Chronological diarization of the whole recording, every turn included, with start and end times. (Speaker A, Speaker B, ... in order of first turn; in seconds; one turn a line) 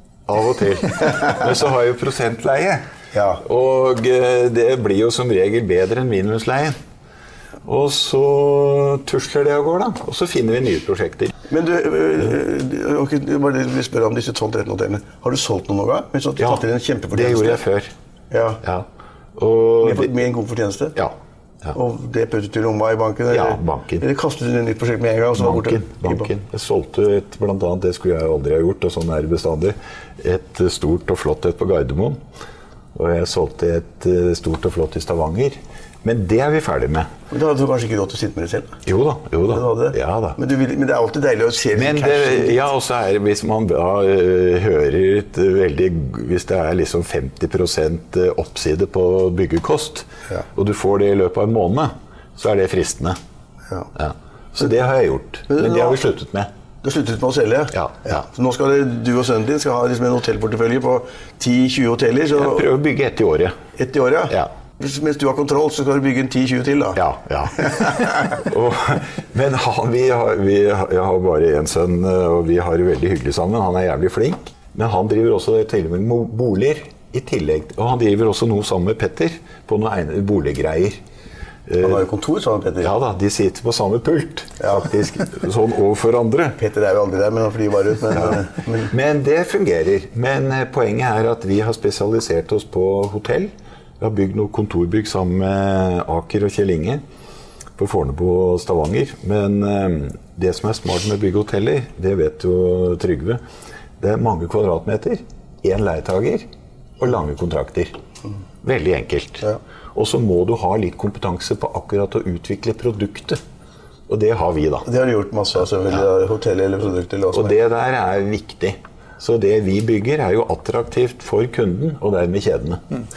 Speaker A: 0.3-2.9
Speaker B: 3.1-3.4
Speaker A: 3.4-6.8
Speaker A: 7.6-11.3
Speaker B: 11.5-17.6
Speaker A: 16.4-17.9
Speaker B: 18.3-18.6
Speaker A: 18.6-20.1
Speaker B: 19.8-20.9
Speaker A: 20.9-21.8
Speaker B: 21.7-26.3
Speaker A: 23.3-24.0
Speaker A: 25.3-32.2
Speaker A: 32.9-37.1
Speaker B: 37.3-38.8
Speaker A: 38.9-40.4
Speaker B: 39.5-42.6
Speaker A: 41.7-53.2
Speaker A: 53.9-56.5
Speaker B: 55.5-56.0
Speaker B: 56.8-62.6
Speaker A: 57.7-58.2
Speaker A: 62.3-63.6
Speaker B: 63.8-67.0
Speaker A: 66.9-81.0
Speaker B: 67.6-68.3
Speaker A: 81.7-82.0
Speaker B: 81.8-82.9
Speaker A: 82.8-86.6
Speaker B: 84.6-84.9
Speaker B: 86.6-88.9
Speaker A: 88.1-97.0
Speaker A: 97.8-103.4
Speaker A: 104.0-106.5
Speaker A: 107.0-107.9
Speaker A: 108.6-113.4
Speaker A: 114.1-114.9
Speaker B: 114.8-117.5
Speaker A: 117.3-122.8